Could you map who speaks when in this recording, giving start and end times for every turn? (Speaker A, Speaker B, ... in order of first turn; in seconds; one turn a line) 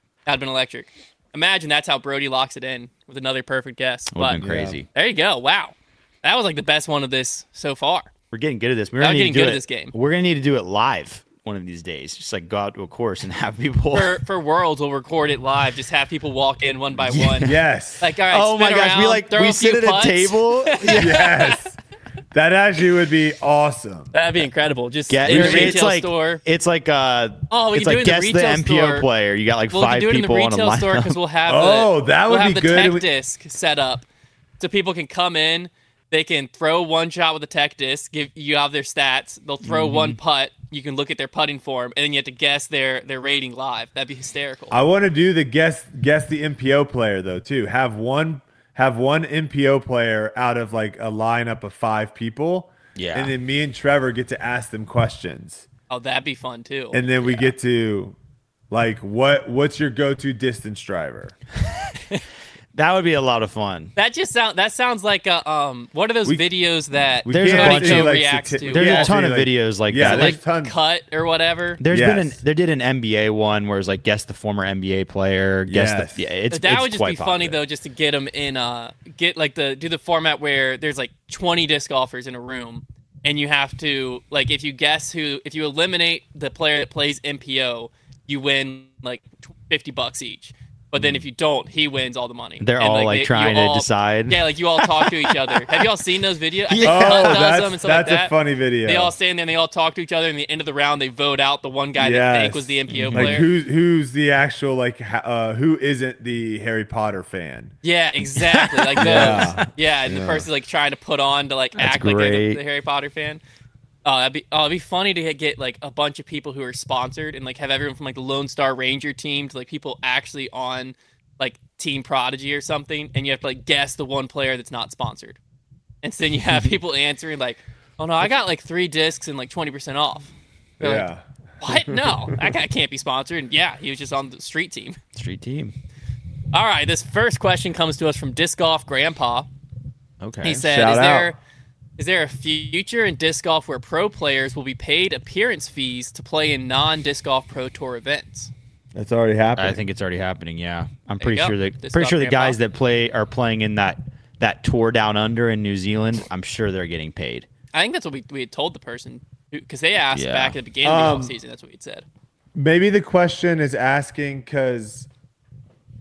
Speaker A: 0.3-4.4
Speaker B: 4.1-4.9
Speaker C: 4.4-4.8
Speaker A: 4.9-8.1
Speaker B: 8.3-14.2
Speaker A: 9.0-9.9
Speaker A: 13.9-21.6
Speaker B: 17.0-17.6
Speaker C: 17.4-18.1
Speaker B: 18.2-21.3
Speaker C: 20.9-21.8
Speaker C: 22.3-24.1
Speaker A: 24.1-26.4
Speaker B: 25.1-31.2
Speaker C: 25.3-25.8
Speaker A: 27.5-29.1
Speaker A: 29.7-34.1
Speaker C: 31.5-33.1
Speaker A: 34.6-44.8
Speaker B: 39.7-40.1
Speaker C: 44.7-55.7
Speaker B: 53.0-53.3
Speaker A: 55.9-57.5
Speaker C: 56.9-58.1
Speaker C: 58.7-61.4
Speaker B: 62.7-63.9
Speaker A: 64.0-69.2
Speaker C: 67.2-70.8
Speaker B: 67.3-70.4
Speaker A: 70.0-71.8
Speaker B: 71.8-77.6
Speaker C: 71.9-72.4
Speaker C: 75.7-76.3
Speaker A: 76.5-98.3
Speaker B: 91.0-91.2
Speaker B: 92.6-95.9
Speaker B: 96.7-97.5
Speaker C: 96.8-99.1
Speaker A: 98.9-103.5
Speaker C: 102.0-107.7
Speaker B: 102.9-103.4
Speaker A: 107.8-113.4
Speaker B: 108.4-109.7
Speaker C: 109.0-110.5
Speaker B: 111.8-112.6
Speaker A: 114.0-125.4
Speaker A: 126.0-131.1
Speaker C: 130.8-131.2
Speaker A: 131.6-135.0
Speaker C: 131.9-132.5
Speaker B: 135.1-135.7
Speaker A: 136.5-139.5
Speaker B: 140.2-140.7
Speaker A: 140.4-141.4
Speaker C: 140.6-141.3
Speaker A: 142.0-148.5
Speaker C: 148.9-149.8
Speaker B: 149.6-157.5
Speaker A: 151.2-152.6
Speaker A: 157.7-162.0
Speaker B: 160.1-160.6
Speaker C: 160.8-161.4
Speaker C: 162.6-165.1